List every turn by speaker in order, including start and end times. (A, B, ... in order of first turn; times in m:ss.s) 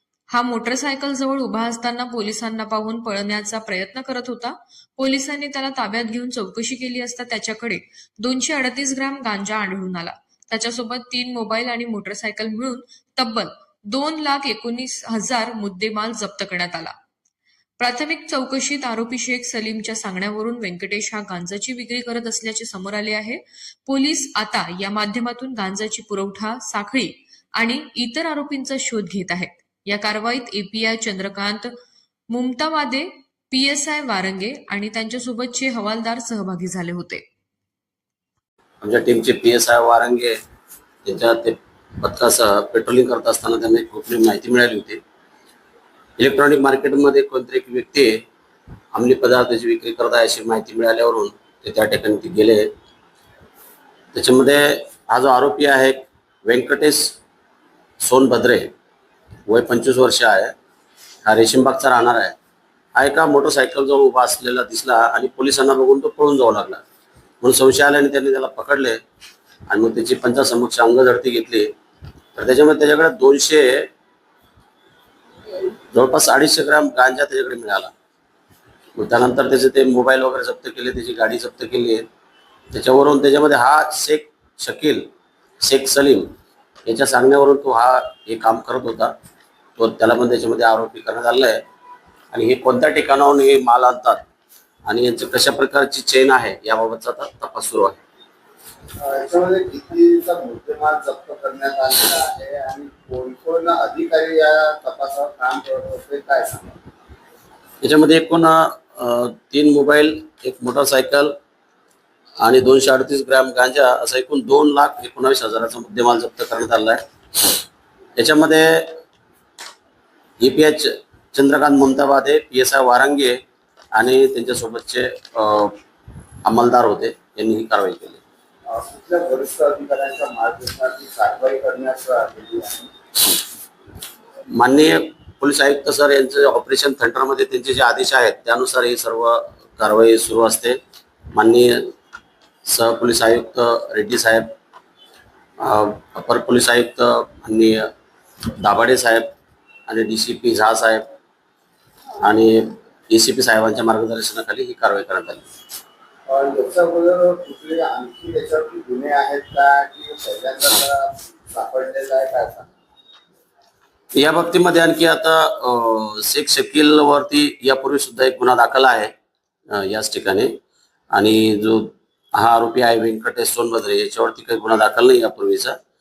0:00.3-0:16.9 A
0:17.8-0:31.7 A
0:32.3-0:37.2 A
0:38.8-0:40.4 B
0:41.0-0:45.0 B
0:46.2-0:48.2 B
0:48.9-0:52.7 B
0:54.1-0:57.2 B
0:58.0-0:58.7 B
0:59.5-1:00.5 B
1:01.2-1:02.3 B
1:03.0-1:06.8 B
1:07.4-1:09.0 B
1:09.7-1:11.7 B
1:12.4-1:13.9 B
1:15.9-1:17.9 B
1:19.0-1:22.0 B
1:22.7-1:25.1 B
1:25.6-1:26.3 B
1:26.8-1:29.1 B
1:29.8-1:31.6 B
1:32.3-1:34.2 B
1:34.9-1:38.0 B
1:39.0-1:46.8 C
1:47.8-1:51.3 B
1:52.4-1:57.6 B
1:58.2-1:58.9 B
2:00.4-2:03.4 B
2:03.9-2:05.7 B
2:06.4-2:08.2 B
2:08.7-2:12.9 C
2:14.5-2:20.8 B
2:21.3-2:21.9 B
2:22.6-2:24.5 B
2:25.6-2:27.9 B
2:28.6-2:29.2 B
2:29.9-2:31.1 B
2:32.2-2:35.5 B
2:36.3-2:42.7 C
2:44.1-2:49.1 B
2:49.7-2:50.5 B
2:51.1-2:55.8 B